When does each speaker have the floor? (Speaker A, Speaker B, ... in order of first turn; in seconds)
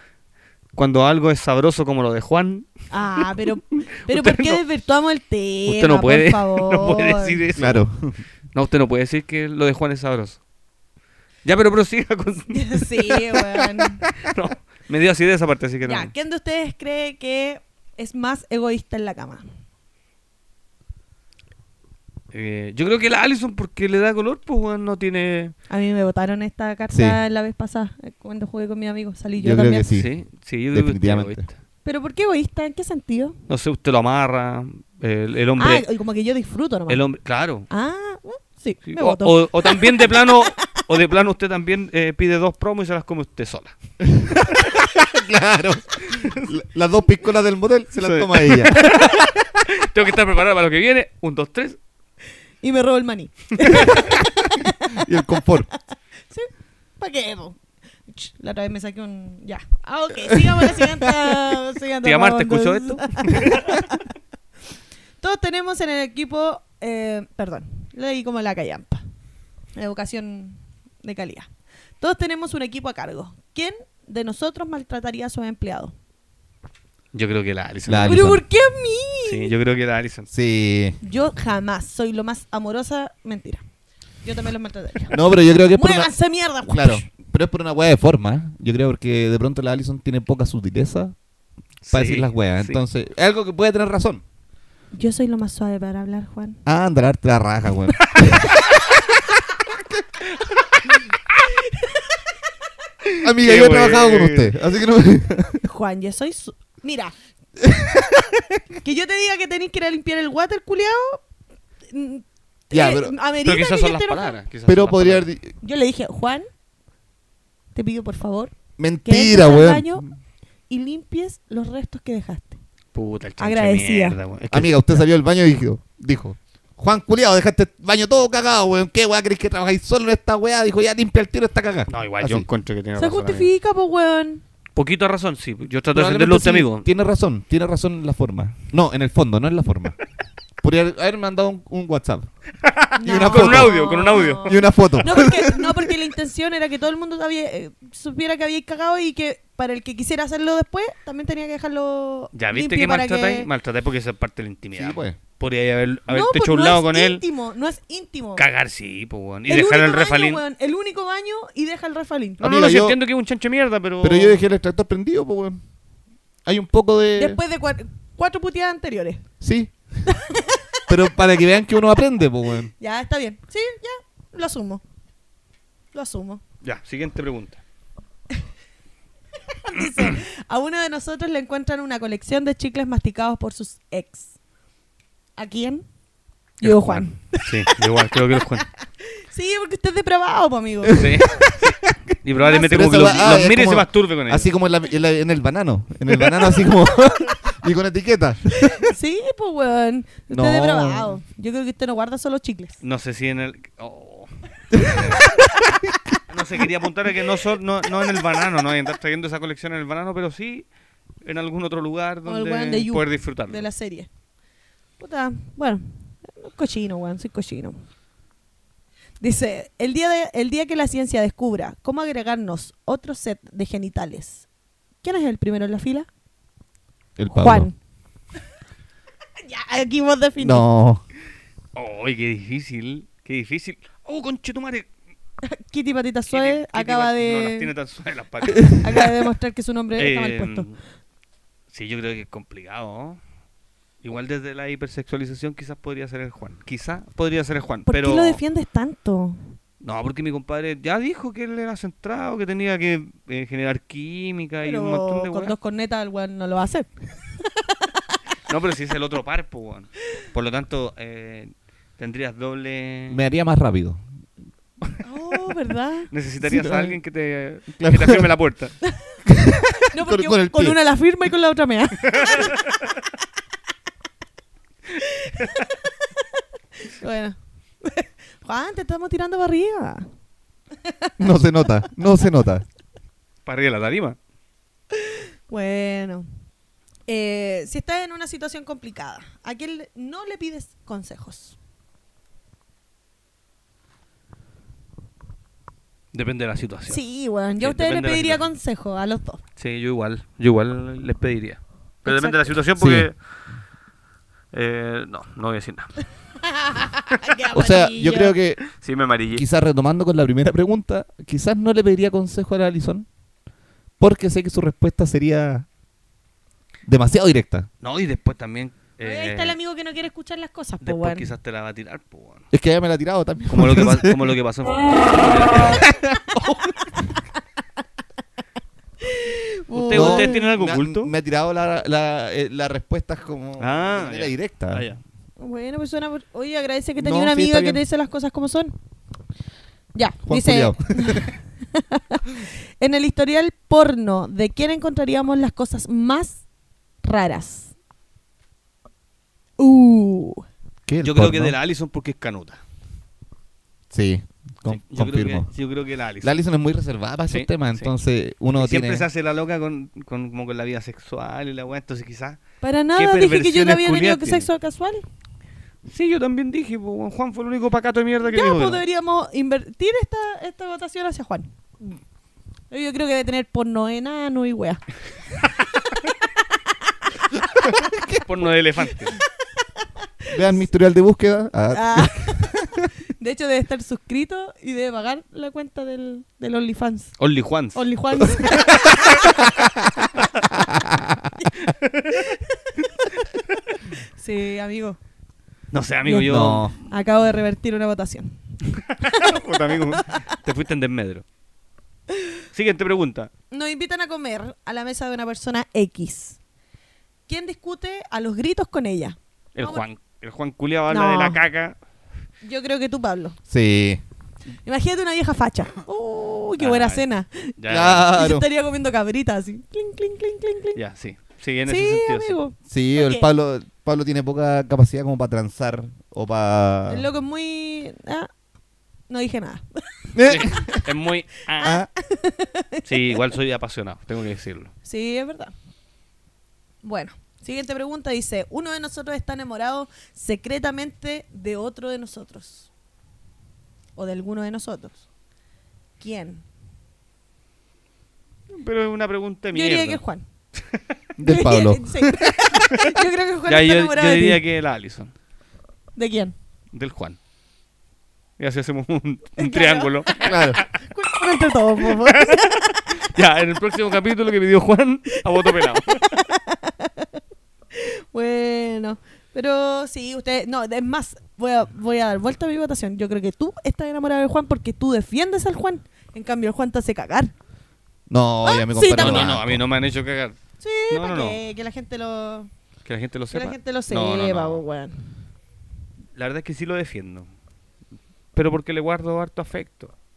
Speaker A: 0.8-4.6, 5.7-7.9, 8.5-10.4, 11.4-16.1, 22.3-25.6, 29.9-31.5, 33.5-35.9, 36.9-37.7, 38.9-43.8, 46.1-46.5, 48.0-51.8, 62.0-63.8, 77.1-78.3, 79.2-80.3, 91.8-92.8, 103.1-104.5, 113.4-115.3, 122.9-125.0, 131.9-133.5, 134.8-136.9, 142.7-144.6, 152.3-157.2, 158.4-160.4, 162.4-164.4, 176.6-177.6, 186.6-188.7, 190.9-194.5, 202.8-205.2, 206.3-210.7, 211.2-213.7, 231.8-234.9, 236.3-239.1, 240.0-240.8, 241.7-243.2, 244.0-248.4, 249.8-255.5, 258.5-263.2, 266.1-268.8, 272.1-272.6, 283.5-284.2, 296.1-297.0, 297.6-298.4, 299.6-303.1, 304.5-306.0, 308.7-309.4, 317.8-319.6, 320.8-322.5, 323.5-325.9, 329.7-331.1, 333.6-335.0, 351.0-352.6, 354.7-356.4, 357.3-357.9, 358.6-362.4, 362.9-364.5, 365.9-368.8, 378.1-379.2, 387.2-387.8, 388.5-388.9, 391.6-392.3, 395.7-396.8, 399.0-401.2, 402.5-403.3, 409.6-411.8, 416.6-417.1, 417.6-418.1, 420.8-422.4, 430.2-431.8, 432.9-434.7, 448.5-450.0, 453.5-455.1, 456.7-457.2, 458.4-460.7, 461.9-466.2, 478.9-480.4, 480.9-481.4, 482.9-484.6, 486.1-487.3, 488.3-489.9
Speaker B: 2.9-7.4, 12.5-14.1, 15.8-19.5, 25.7-29.9, 31.9-33.4, 35.6-37.0, 37.7-40.7, 52.6-55.8, 57.0-64.0, 65.2-69.0, 69.8-71.5, 72.0-75.9, 78.0-79.5, 81.0-83.6, 84.2-87.0, 94.9-96.6, 101.5-102.0, 105.6-107.1, 108.7-111.2, 111.9-114.4, 115.6-116.5, 117.8-120.0, 120.7-122.6, 123.4-124.2, 133.0-134.4, 143.0-153.5, 156.1-158.4, 159.5-162.4, 167.2-169.2, 170.1-170.8, 172.8-174.8, 175.9-176.4, 179.6-184.3, 185.4-185.8, 186.6-191.5, 192.4-193.4, 198.6-202.8, 212.2-214.1, 215.0-217.8, 219.2-224.5, 225.0-226.1, 227.3-227.8, 229.4-230.7, 235.4-237.7, 238.7-240.7, 247.9-249.6, 254.6-256.9, 257.4-257.9, 265.0-266.1, 268.9-269.1, 269.9-272.5, 275.0-276.2, 276.8-280.1, 280.8-281.2, 285.0-286.3, 287.1-291.6, 296.9-299.4, 302.1-302.5, 306.4-308.4, 319.0-321.3, 329.0-330.5, 335.4-338.8, 339.9-346.4, 347.0-347.7, 349.6-350.4, 362.6-365.1, 368.2-371.5, 372.7-374.8, 376.6-376.9, 381.7-387.2, 387.7-389.5, 394.2-395.0, 396.1-398.4, 399.0-400.4, 403.5-406.4, 407.3-409.9, 410.9-411.4, 412.4-413.4, 414.6-420.8, 421.7-423.3, 426.9-428.3, 429.1-429.8, 431.6-433.2, 434.9-435.5, 436.8-442.7, 444.0-445.1, 446.0-446.4, 449.5-450.2, 451.2-454.4, 456.0-456.4, 459.4-462.8, 465.9-467.1, 467.7-477.3, 478.4-479.3, 480.6-482.5, 483.3-485.1
Speaker C: 7.6-8.2, 26.9-27.2, 29.4-30.1, 30.7-31.4, 44.1-49.1, 54.9-55.7, 60.6-60.8, 77.9-78.4, 80.3-81.0, 85.1-86.1, 86.7-91.2, 91.9-94.2, 96.7-98.6, 103.2-105.7, 107.6-108.2, 112.7-113.2, 114.7-115.5, 118.8-120.1, 124.5-132.5, 135.9-140.0, 140.6-142.3, 143.0-143.8, 144.4-145.8, 154.7-155.2, 162.4-163.0, 164.0-165.6, 166.4-167.4, 169.4-170.0, 170.9-172.7, 190.9-191.4, 192.7-198.8, 200.3-201.2, 204.7-205.4, 227.2-227.7, 230.4-231.0, 263.1-264.0, 266.4-267.0, 267.8-268.3, 269.3-270.8, 281.2-282.6, 302.8-303.1, 307.5-308.6, 309.3-313.1, 314.0-315.7, 316.9-317.7, 322.5-324.4, 329.9-334.9, 337.0-337.8, 340.2-341.3, 350.9-351.6, 353.9-355.5, 356.2-359.1, 377.8-378.2, 380.3-382.9, 389.4-391.4, 396.2-396.7, 413.5-414.0, 417.7-418.5, 422.6-427.1, 430.1-430.9, 431.6-431.9, 451.2-452.5, 460.2-460.6, 478.1-479.6